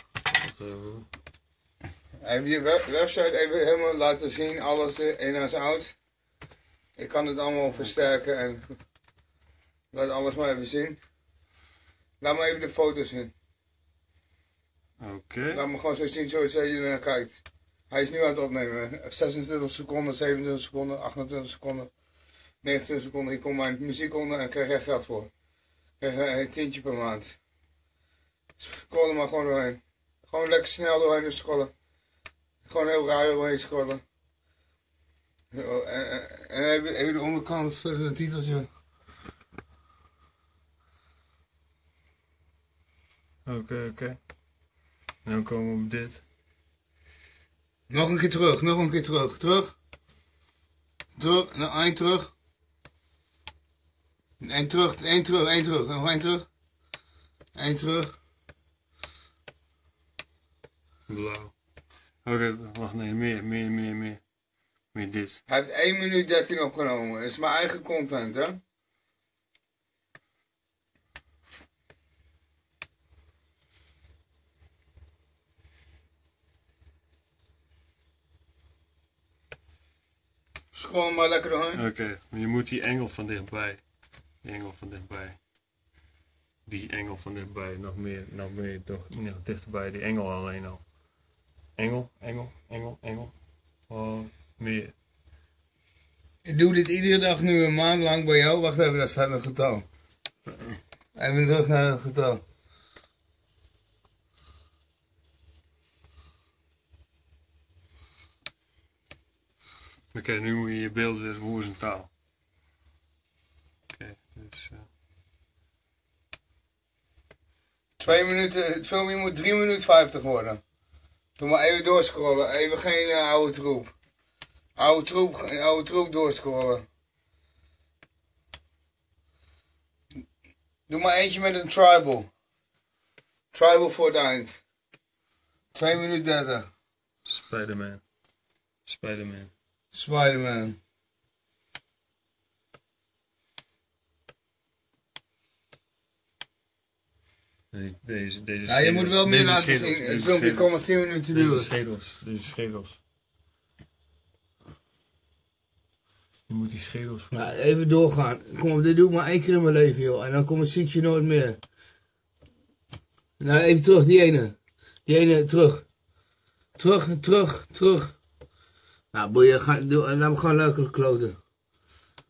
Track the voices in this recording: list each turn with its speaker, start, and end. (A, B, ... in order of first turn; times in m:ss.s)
0:00.4-0:01.1 A
0:02.2-0:05.9 B
0:07.0-0:08.7 B
0:09.9-0:11.0 B
0:12.2-0:13.3 B
0:15.0-0:15.6 A
0:15.5-0:21.9 B
0:22.6-0:25.3 B
0:26.0-0:27.4 B
0:28.6-0:31.7 B
0:32.6-0:34.0 B
0:35.5-0:38.7 B
0:43.4-0:44.2 A
0:45.2-0:46.2 A
0:47.9-0:49.7 B
0:51.2-0:52.3 B
0:54.4-0:56.5 B
0:57.5-0:58.2 B
1:01.1-1:01.5 A
1:02.2-1:04.2 A
1:04.9-1:05.4 A
1:05.5-1:08.6 B
1:20.7-1:21.8 B
1:21.7-1:23.8 A
1:24.4-1:25.4 A
1:26.6-1:30.8 A
1:31.8-1:33.3 A
1:33.9-1:34.9 A
1:36.4-1:39.8 B
1:41.1-1:42.4 B
1:50.1-1:52.1 A
1:53.9-1:54.9 A
1:58.0-2:00.6 B
1:58.0-1:58.3 A
2:01.4-2:03.9 B
2:04.8-2:06.8 B
2:10.9-2:12.3 B
2:13.5-2:14.6 B
2:15.7-2:16.7 B
2:17.2-2:18.0 A
2:18.8-2:19.5 A
2:19.9-2:20.8 B
2:27.7-2:33.0 A
2:28.7-2:31.7 B
2:36.5-2:37.3 A
2:37.3-2:41.6 B
2:43.4-2:45.8 B
2:46.8-2:48.2 B
2:49.1-2:51.4 B